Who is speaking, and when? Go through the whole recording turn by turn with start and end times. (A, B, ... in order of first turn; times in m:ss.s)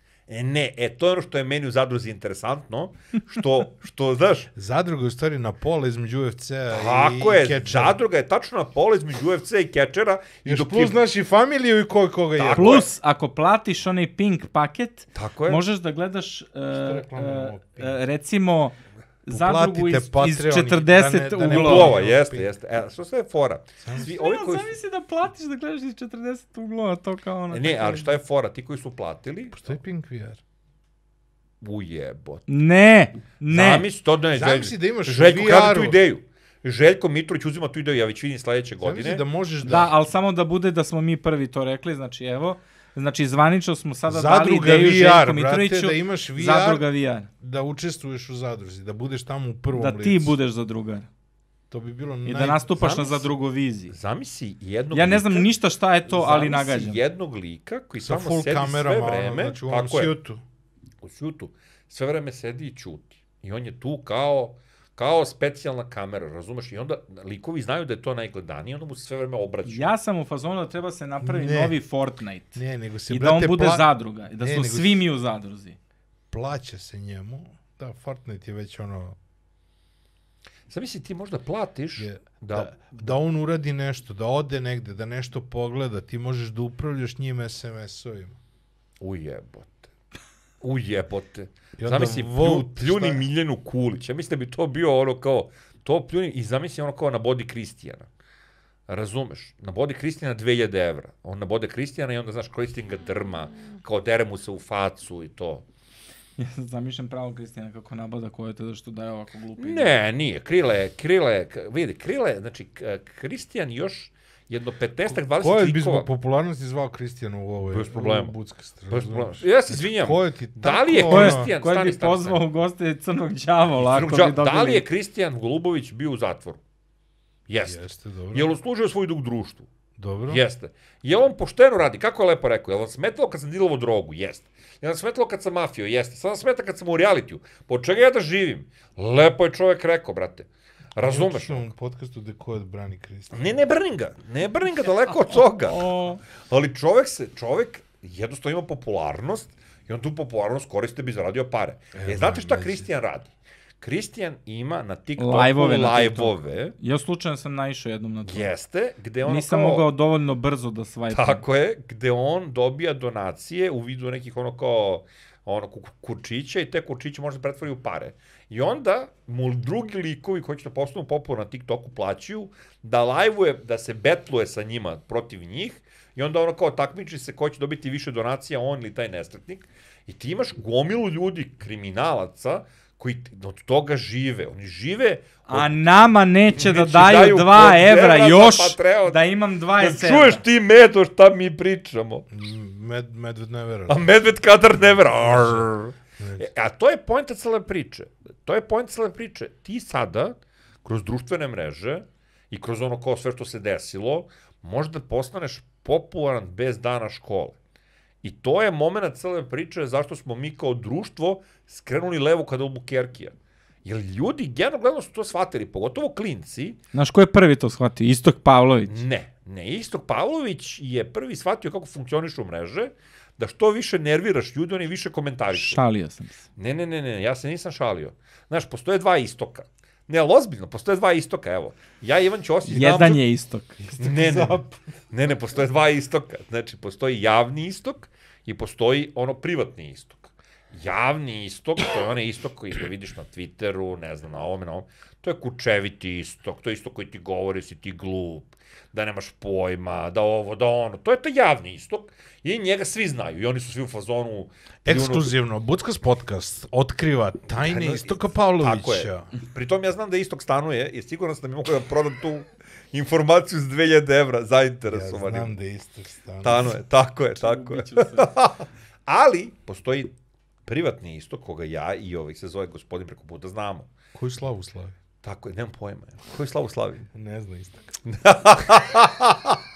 0:00.3-0:04.5 A
0:04.6-0:08.0 B
0:06.7-0:11.0 A
0:10.4-0:12.8 B
0:12.4-0:12.9 A
0:12.5-0:18.8 C
0:15.2-0:15.6 A
0:16.7-0:18.0 B
0:19.3-0:21.9 C
0:19.3-0:22.5 B
0:21.5-0:24.7 A
0:23.8-0:24.1 B
0:24.0-0:28.1 C
0:27.5-0:29.6 A
0:29.5-0:30.4 B
0:31.6-0:32.5 A
0:32.5-0:33.9 C
0:33.5-0:39.2 A
0:34.3-0:36.0 B
0:38.8-0:39.9 B
0:39.6-0:47.3 C
0:44.1-0:46.9 B
0:47.4-0:50.4 B
0:49.7-0:51.1 C
0:51.7-0:53.1 B
0:52.3-0:53.9 C
0:52.8-0:53.2 A
0:53.9-0:55.5 A
0:54.9-0:57.0 C
0:56.1-1:00.1 A
0:58.0-1:00.4 B
1:01.0-1:09.9 A
1:09.6-1:15.8 C
1:11.2-1:11.8 B
1:12.6-1:15.0 B
1:16.3-1:19.2 B
1:20.7-1:23.2 A
1:22.0-1:28.4 B
1:29.0-1:29.9 A
1:30.6-1:38.1 A
1:31.8-1:33.2 B
1:38.9-1:45.6 A
1:46.4-1:49.9 C
1:49.6-1:56.1 A
1:55.1-2:01.5 B
1:57.7-1:58.3 A
1:58.9-2:02.4 A
2:01.1-2:04.8 C
2:03.8-2:06.6 A
2:07.5-2:07.8 A
2:07.6-2:08.5 B
2:08.3-2:09.7 A
2:10.0-2:10.4 B
2:10.3-2:21.7 A
2:21.0-2:23.6 B
2:23.3-2:36.8 A
2:25.7-2:26.2 C
2:32.0-2:32.9 B
2:35.2-2:38.5 C
2:38.2-2:39.9 A
2:39.2-2:41.4 C
2:41.1-3:05.7 A
3:05.5-3:10.4 C
3:06.5-3:09.2 A
3:09.8-3:12.3 A
3:12.3-3:14.1 B
3:13.9-3:27.6 A
3:14.8-3:16.5 B
3:28.2-3:36.8 A
3:36.9-3:39.0 C
3:38.9-3:45.8 A
3:45.5-3:46.4 C
3:46.6-3:53.2 A
3:52.7-3:53.8 C
3:53.8-3:54.8 B
3:54.0-4:15.3 A
4:14.9-4:19.3 B
4:17.6-4:25.6 A
4:24.9-4:26.7 B
4:26.4-4:30.1 A
4:27.4-4:28.3 C
4:30.7-4:33.9 A
4:34.1-4:35.0 B
4:35.2-4:37.1 A
4:37.1-4:37.9 B
4:38.0-4:39.6 A